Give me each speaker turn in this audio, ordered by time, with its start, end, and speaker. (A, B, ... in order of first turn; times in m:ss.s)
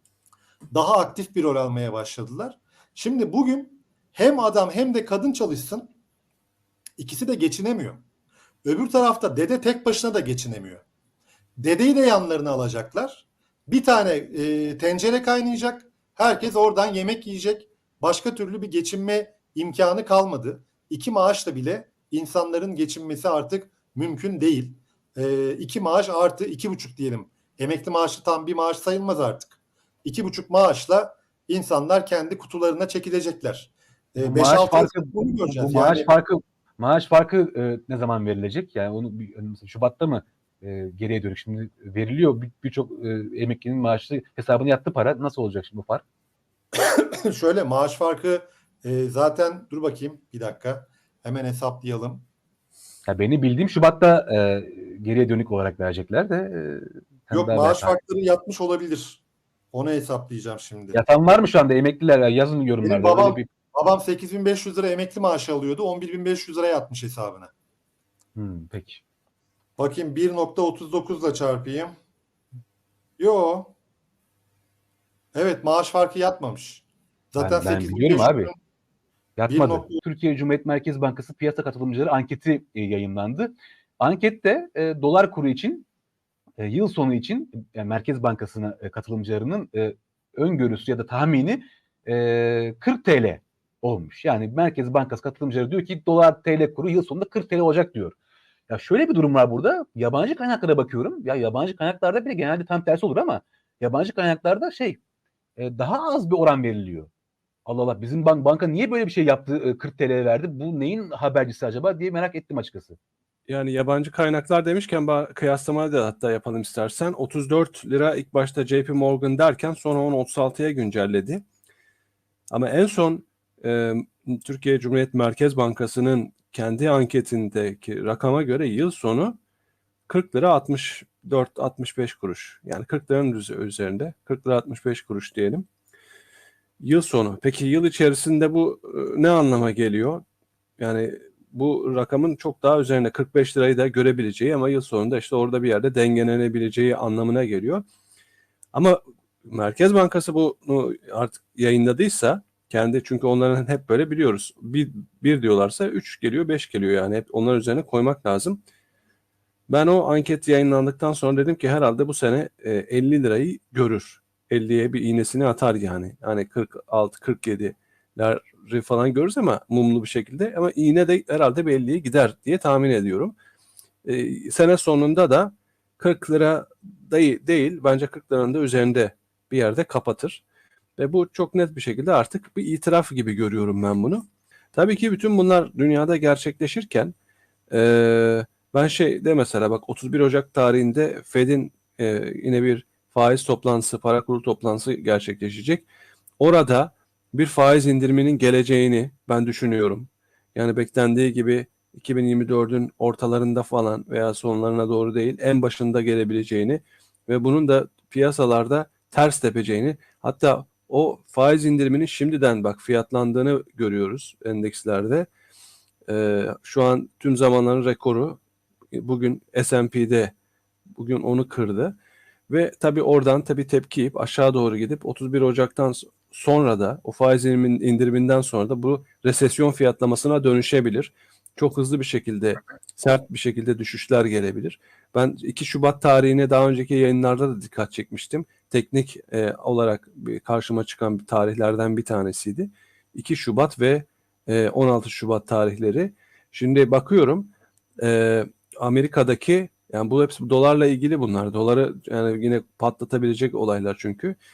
0:00.7-0:05.9 A
0:07.0-0:08.0 A
0:08.6-0:10.8 A
0:11.6-0:36.1 A
0:34.2-0:46.0 B
0:46.8-0:52.2 A
0:53.1-0:57.9 B
0:57.3-1:01.0 A
1:00.9-1:03.5 B
1:02.8-1:07.5 A
1:08.3-1:09.0 B
1:09.8-1:11.9 A
1:13.2-1:13.7 A
1:15.3-1:18.6 A
1:17.4-1:18.5 B
1:19.4-1:25.8 B
1:19.5-1:20.0 A
1:26.6-1:38.1 B
1:38.7-1:45.0 B
1:45.6-1:47.1 B
1:47.6-1:53.0 B
1:53.5-2:01.4 C
2:02.5-2:09.4 C
2:10.1-2:15.6 C
2:16.8-2:20.2 C
2:20.8-2:27.8 C
2:28.7-2:38.6 C
2:39.7-2:53.3 C
2:54.0-3:00.4 C
3:01.0-3:07.1 C
3:07.7-3:15.9 C
3:16.4-3:35.3 C
3:36.1-3:38.4 C
3:38.9-3:40.3 C
3:40.9-3:42.0 C
3:42.5-4:14.4 C